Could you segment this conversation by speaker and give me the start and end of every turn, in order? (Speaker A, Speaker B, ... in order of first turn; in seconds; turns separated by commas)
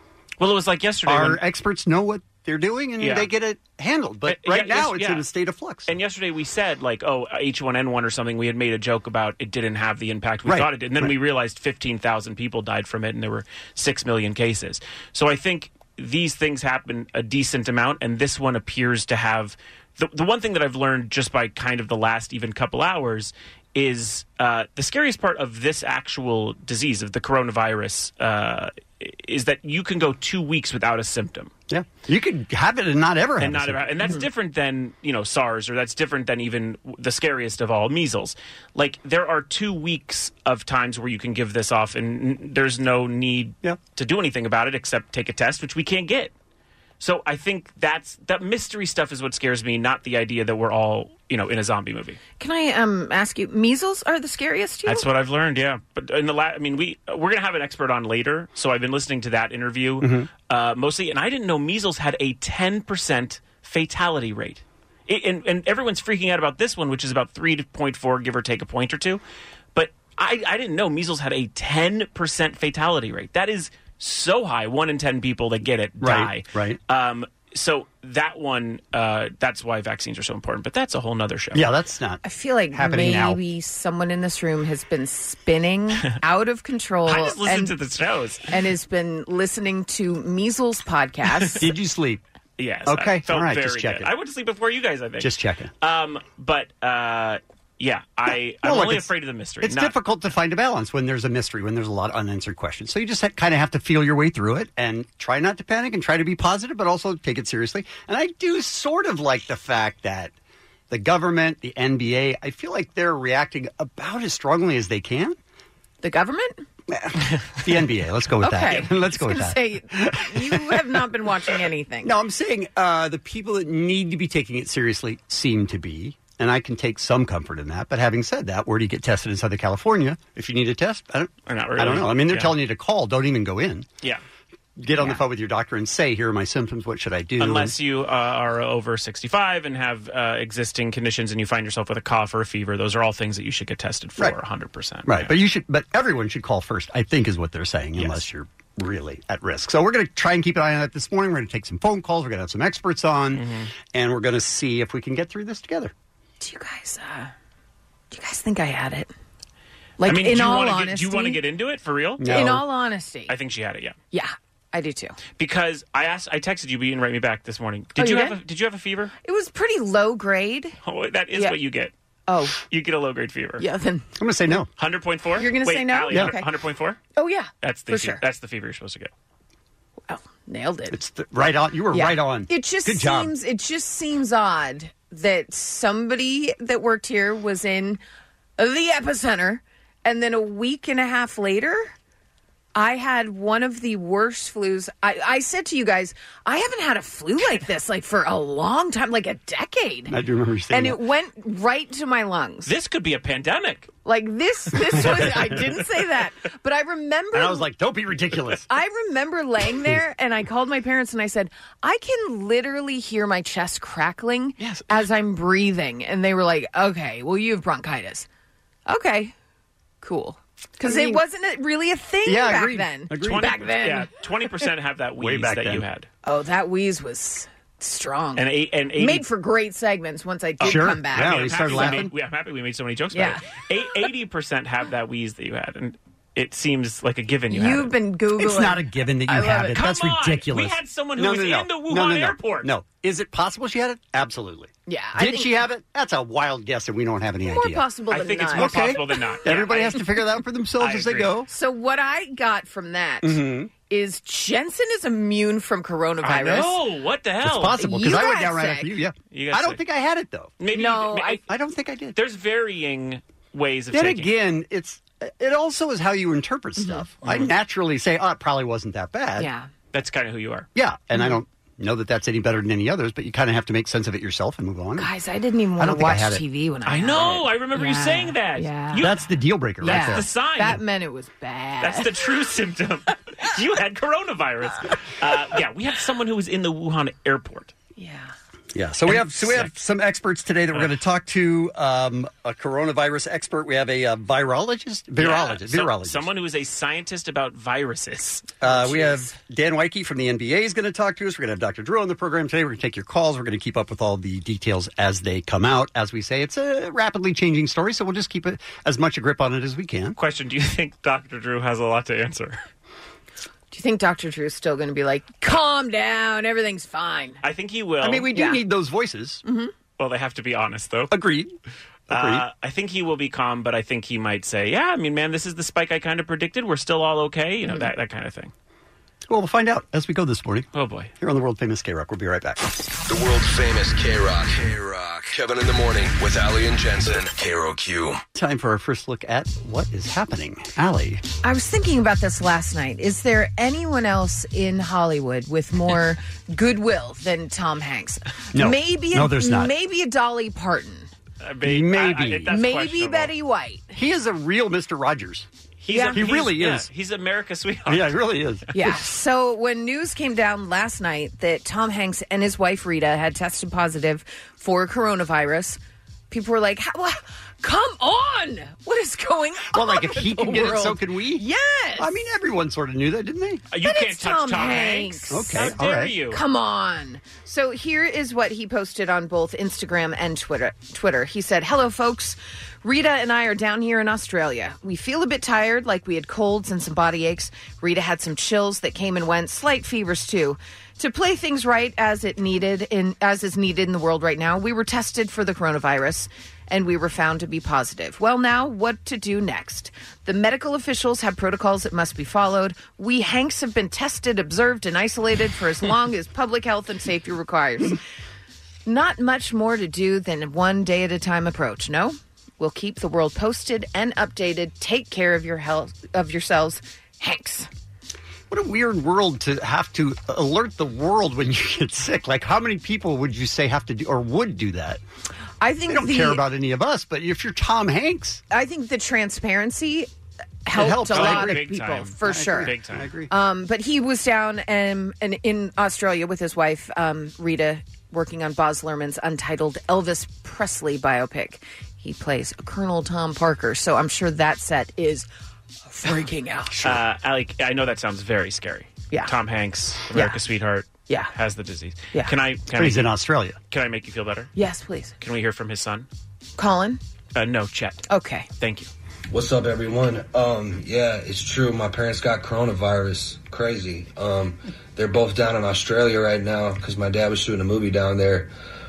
Speaker A: 0.4-1.4, Speaker B: 1.1-5.9, Speaker A: 3.0-3.3, Speaker A: 4.3-5.2, Speaker A: 5.9-31.5, Speaker B: 10.4-11.1, Speaker B: 31.7-33.9, Speaker A: 33.4-46.3, Speaker A: 47.0-52.2, Speaker C: 52.4-55.0, Speaker A: 54.9-69.2, Speaker B: 60.0-60.3, Speaker A: 69.7-81.7, Speaker B: 76.0-76.8, Speaker B: 81.5-82.2, Speaker C: 82.2-87.7, Speaker B: 82.7-83.4, Speaker A: 87.0-88.5, Speaker C: 88.5-91.6, Speaker B: 91.6-92.2, Speaker A: 92.6-95.3, Speaker B: 92.9-94.1, Speaker B: 95.2-95.7, Speaker A: 95.8-99.9, Speaker B: 98.6-99.1, Speaker B: 99.6-110.3, Speaker B: 110.9-115.4, Speaker C: 116.0-116.6, Speaker B: 116.9-120.8, Speaker C: 118.4-122.1, Speaker B: 122.0-133.9, Speaker A: 131.5-132.6, Speaker B: 134.8-137.7, Speaker A: 137.4-145.3, Speaker B: 145.1-155.9, Speaker A: 148.0-148.2, Speaker A: 153.3-153.7, Speaker C: 156.4-157.3, Speaker C: 158.1-159.1, Speaker C: 160.0-161.4, Speaker A: 160.1-162.3, Speaker B: 162.2-162.6, Speaker C: 162.3-163.3, Speaker A: 163.3-163.9, Speaker C: 164.1-165.2, Speaker A: 165.4-169.1, Speaker C: 168.0-168.4, Speaker C: 169.2-170.8, Speaker A: 170.8-171.9, Speaker C: 172.3-172.6, Speaker A: 172.7-173.6, Speaker C: 173.6-174.1, Speaker B: 174.2-174.7, Speaker A: 174.8-177.0, Speaker C: 175.4-176.5, Speaker B: 176.1-176.4, Speaker C: 177.2-178.2, Speaker A: 177.6-179.1, Speaker C: 180.1-181.0, Speaker B: 180.9-183.3, Speaker C: 181.9-188.0, Speaker C: 188.6-191.9, Speaker C: 192.7-200.1, Speaker B: 200.1-201.0, Speaker C: 200.7-202.7, Speaker A: 202.6-203.9, Speaker C: 204.0-207.7, Speaker B: 204.7-205.6, Speaker B: 207.3-208.7, Speaker C: 208.7-218.3, Speaker B: 214.6-215.0, Speaker C: 218.9-219.3, Speaker C: 220.0-224.1, Speaker B: 220.8-221.2, Speaker B: 222.2-223.6, Speaker A: 223.2-226.1, Speaker B: 225.2-225.8, Speaker C: 226.2-232.0, Speaker A: 228.3-229.2, Speaker A: 230.6-237.9, Speaker B: 230.6-232.1, Speaker C: 233.1-233.4, Speaker C: 237.5-239.8, Speaker B: 238.4-247.8, Speaker A: 239.7-242.7, Speaker C: 244.9-245.7, Speaker C: 247.5-249.0, Speaker A: 248.1-250.0, Speaker B: 248.5-251.5, Speaker A: 250.8-251.3, Speaker C: 251.5-256.7, Speaker B: 253.2-253.7, Speaker A: 256.2-257.8, Speaker B: 257.4-260.5, Speaker C: 257.8-258.9, Speaker A: 259.3-259.8, Speaker A: 260.6-261.4, Speaker C: 260.7-261.4, Speaker B: 261.5-262.1, Speaker A: 262.1-264.3, Speaker B: 263.9-269.5, Speaker C: 266.8-267.1, Speaker A: 267.2-267.5, Speaker C: 269.4-269.7, Speaker A: 269.9-270.7, Speaker B: 270.7-275.1, Speaker C: 275.0-279.1, Speaker B: 275.8-276.4, Speaker A: 276.9-279.2, Speaker B: 279.0-280.3, Speaker A: 279.8-280.8, Speaker C: 279.8-282.1, Speaker A: 281.8-287.7, Speaker C: 287.9-288.3, Speaker B: 288.7-296.3, Speaker A: 289.3-289.7, Speaker A: 295.2-299.1, Speaker B: 298.6-310.2, Speaker A: 310.2-312.6, Speaker C: 313.7-317.4, Speaker A: 317.4-318.3, Speaker B: 318.0-319.4, Speaker C: 318.3-318.6, Speaker C: 319.4-319.7, Speaker A: 320.0-321.1, Speaker B: 321.1-321.5, Speaker B: 322.1-322.4, Speaker A: 322.1-328.5, Speaker B: 329.3-330.7, Speaker A: 330.7-331.1, Speaker B: 331.2-332.6, Speaker D: 333.1-338.2, Speaker B: 338.4-341.2, Speaker C: 341.4-351.1, Speaker B: 348.5-349.7, Speaker A: 351.4-353.3, Speaker B: 351.6-352.6, Speaker C: 352.5-353.9, Speaker B: 353.9-355.5, Speaker A: 355.8-358.1, Speaker C: 355.9-356.3, Speaker B: 356.1-356.9, Speaker B: 357.9-358.6, Speaker C: 358.7-365.8, Speaker C: 366.3-372.1, Speaker B: 369.7-371.4, Speaker B: 372.0-373.6, Speaker A: 373.7-376.4, Speaker C: 373.8-375.7, Speaker B: 375.3-376.1, Speaker C: 376.3-408.0, Speaker C: 408.9-417.7, Speaker B: 418.5-425.0, Speaker C: 425.6-426.4, Speaker B: 425.9-428.4, Speaker C: 428.5-430.1, Speaker C: 430.6-432.7, Speaker B: 430.7-431.6, Speaker A: 431.1-433.1, Speaker B: 432.2-433.3, Speaker C: 433.3-445.3, Speaker C: 445.9-446.8, Speaker A: 446.8-453.1, Speaker B: 452.7-453.6, Speaker A: 453.7-454.5, Speaker C: 454.6-455.1, Speaker A: 455.2-456.1, Speaker C: 456.6-457.0, Speaker A: 457.3-458.0, Speaker C: 458.1-458.5, Speaker A: 458.6-458.9, Speaker E: 459.3-468.5